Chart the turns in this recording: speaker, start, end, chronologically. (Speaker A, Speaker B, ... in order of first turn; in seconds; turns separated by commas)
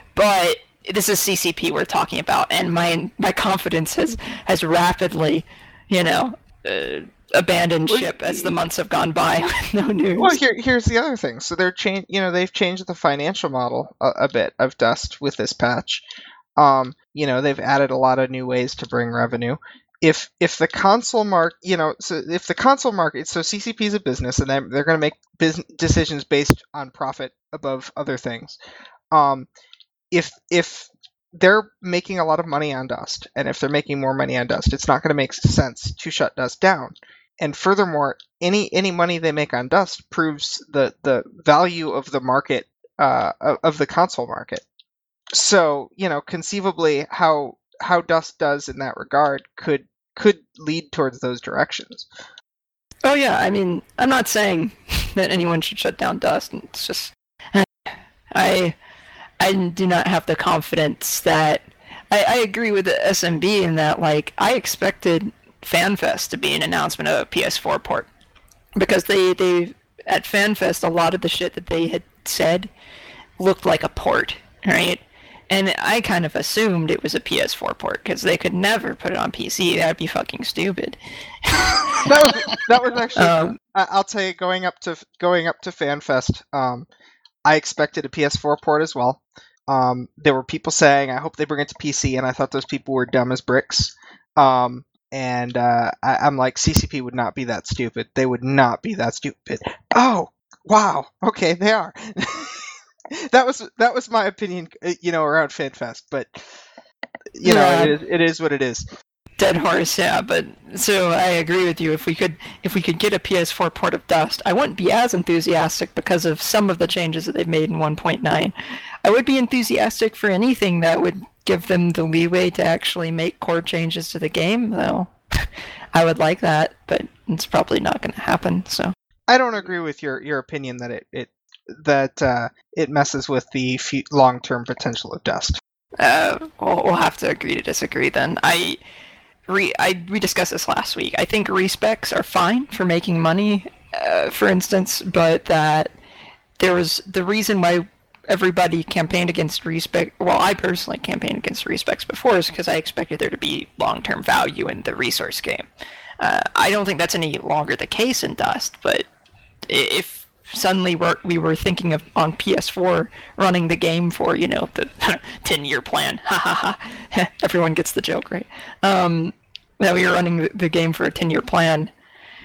Speaker A: 0.1-10.4, Speaker B: 7.9-8.5, Speaker B: 10.2-16.0, Speaker B: 16.6-28.6, Speaker B: 29.1-29.5, Speaker B: 30.1-44.6, Speaker B: 45.3-52.1, Speaker A: 53.0-57.7, Speaker A: 58.3-58.8, Speaker A: 59.4-68.1, Speaker A: 68.8-72.7, Speaker A: 73.4-82.6, Speaker B: 82.0-86.9, Speaker A: 83.2-83.6, Speaker B: 87.5-106.5, Speaker B: 107.4-108.9, Speaker A: 107.4-108.0, Speaker A: 109.4-128.9, Speaker B: 129.3-135.6, Speaker A: 136.0-138.8, Speaker A: 139.5-145.9, Speaker A: 146.6-155.7, Speaker A: 156.2-159.1, Speaker A: 159.7-171.9